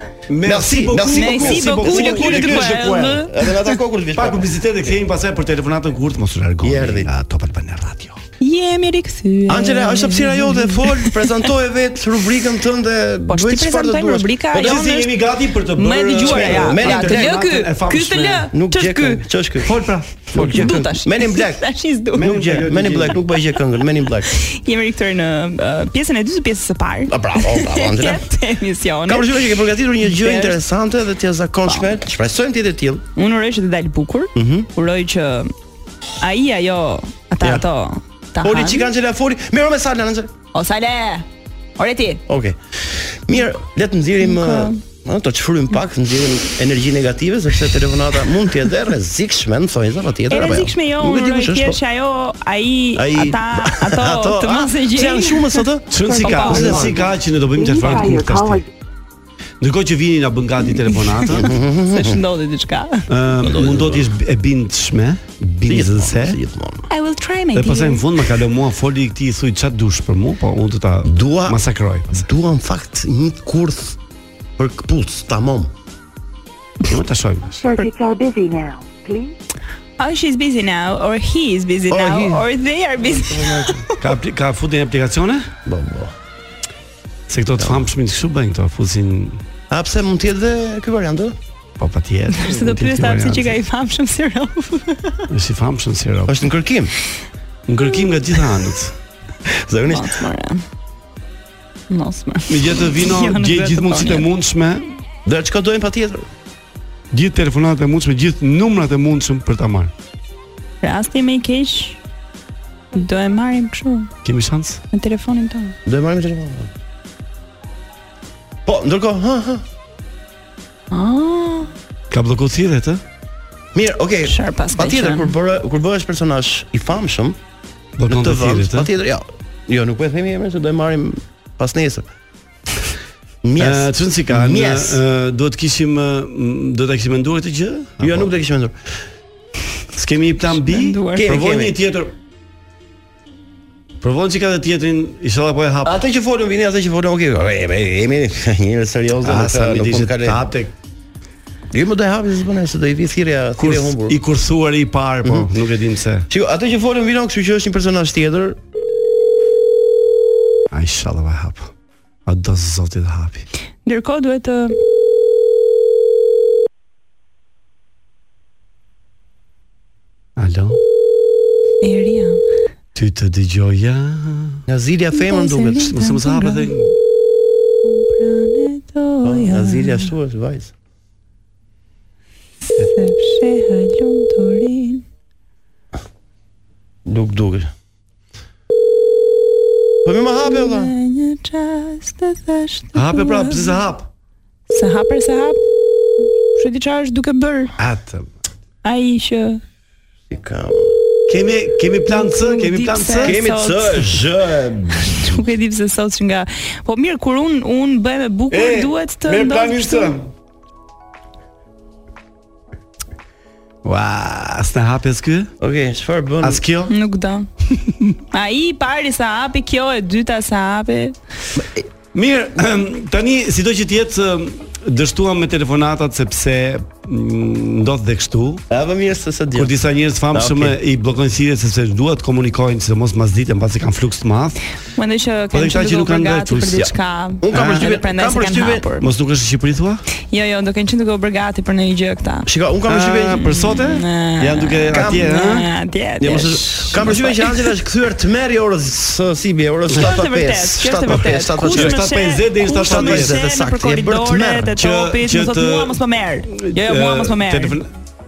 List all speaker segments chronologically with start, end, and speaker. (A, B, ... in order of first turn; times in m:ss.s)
0:00.3-0:03.2 A
0:00.4-0:04.5 B
0:01.1-0:03.7 C
0:04.2-0:08.2 A
0:06.6-0:07.1 B
0:08.4-0:11.3 C
0:09.5-0:14.3 B
0:13.3-0:15.2 C
0:14.5-0:18.5 A
0:15.8-0:19.2 C
0:16.2-0:17.4 B
0:18.5-0:24.4 B
0:19.6-0:20.8 A
0:20.4-0:22.5 C
0:22.1-0:23.2 A
0:24.4-0:29.5 C
0:27.1-0:28.3 B
0:29.1-0:33.0 B
0:30.0-0:30.6 C
0:33.2-0:35.5 C
0:34.4-0:34.7 B
0:36.2-0:38.9 C
0:38.4-0:40.3 B
0:40.5-0:41.3 C
0:41.8-0:42.2 C
0:42.3-0:51.8 B
0:44.2-0:44.8 C
0:50.3-0:56.8 C
0:53.0-0:57.1 B
0:55.9-0:58.7 A
0:56.1-0:56.9 D
0:57.5-0:58.6 D
0:57.8-0:58.1 C
0:59.6-1:01.6 A
1:00.9-1:01.3 C
1:01.3-1:02.2 B
1:01.9-1:03.1 C
1:03.1-1:06.4 A
1:03.4-1:04.1 B
1:05.7-1:06.9 B
1:06.9-1:08.1 C
1:07.5-1:12.3 A
1:11.0-1:11.6 B
1:12.1-1:14.0 B
1:14.6-1:15.7 B
1:16.9-1:17.7 A
1:17.6-1:19.3 D
1:20.0-1:23.9 C
1:21.9-1:22.5 B
1:23.0-1:23.8 B
1:24.0-1:25.5 A
1:25.7-1:26.1 B
1:27.3-1:29.4 A
1:27.6-1:27.8 B
1:29.7-1:31.4 B
1:31.8-1:33.6 A
1:32.3-1:35.3 C
1:35.3-1:36.5 A
1:36.3-1:36.9 B
1:37.7-1:39.0 A
1:39.5-1:40.3 B
1:39.9-1:40.6 C
1:41.9-1:44.3 C
1:42.5-1:44.9 A
1:45.3-1:46.3 B
1:47.1-1:49.9 A
1:50.8-1:52.0 C
1:52.9-1:54.1 C
1:54.2-1:54.8 A
1:54.9-1:55.8 C
1:55.9-1:56.7 B
1:58.7-1:59.6 B
2:00.9-2:01.7 C
2:02.1-2:03.0 A
2:03.7-2:07.4 B
2:04.2-2:05.3 C
2:08.0-2:08.9 A
2:08.1-2:12.0 B
2:13.4-2:15.0 B
2:13.6-2:18.3 A
2:18.0-2:18.8 B
2:19.9-2:22.1 A
2:20.5-2:21.4 C
2:21.2-2:21.8 B
2:24.0-2:26.0 A
2:25.8-2:30.4 B
2:29.2-2:30.7 A
2:31.7-2:34.2 B
2:33.6-2:36.3 A
2:36.3-2:38.6 B
2:40.7-2:41.7 A
2:42.3-2:43.5 A
2:43.9-2:44.8 C
2:50.4-2:50.8 A
2:51.8-2:52.4 C
2:53.0-2:54.6 A
2:54.7-2:55.9 B
2:55.1-2:56.8 C
2:55.6-2:56.9 A
2:57.8-3:00.1 C
2:59.2-3:00.7 B
3:02.7-3:05.0 C
3:07.1-3:07.7 B
3:10.0-3:10.9 B
3:10.4-3:13.8 C
3:12.9-3:14.1 A
3:14.7-3:15.6 C
3:16.5-3:17.7 C
3:17.8-3:18.3 A
3:18.8-3:19.6 C
3:20.3-3:20.9 B
3:21.3-3:23.4 A
3:22.1-3:24.2 C
3:23.2-3:25.4 B
3:25.0-3:30.1 C
3:28.5-3:30.3 A
3:33.8-3:35.5 A
3:35.6-3:36.6 B
3:36.4-3:36.9 A
3:36.9-3:37.5 C
3:38.3-3:41.2 C
3:41.6-3:41.8 B
3:42.1-3:48.6 A
3:48.7-3:49.8 B
3:49.6-3:54.6 A
3:50.3-3:50.8 B
3:55.0-3:59.1 C
3:55.5-3:56.9 A
3:57.4-3:58.8 B
3:57.5-3:57.9 A
3:59.0-4:00.0 A
4:00.3-4:02.5 C
4:02.5-4:03.5 B
4:02.9-4:05.7 A
4:03.5-4:07.7 C
4:04.9-4:05.3 B
4:06.2-4:12.0 B
4:09.9-4:10.2 A
4:10.0-4:17.8 C
4:11.1-4:13.4 A
4:12.7-4:14.8 B
4:14.8-4:16.0 A
4:16.5-4:17.9 A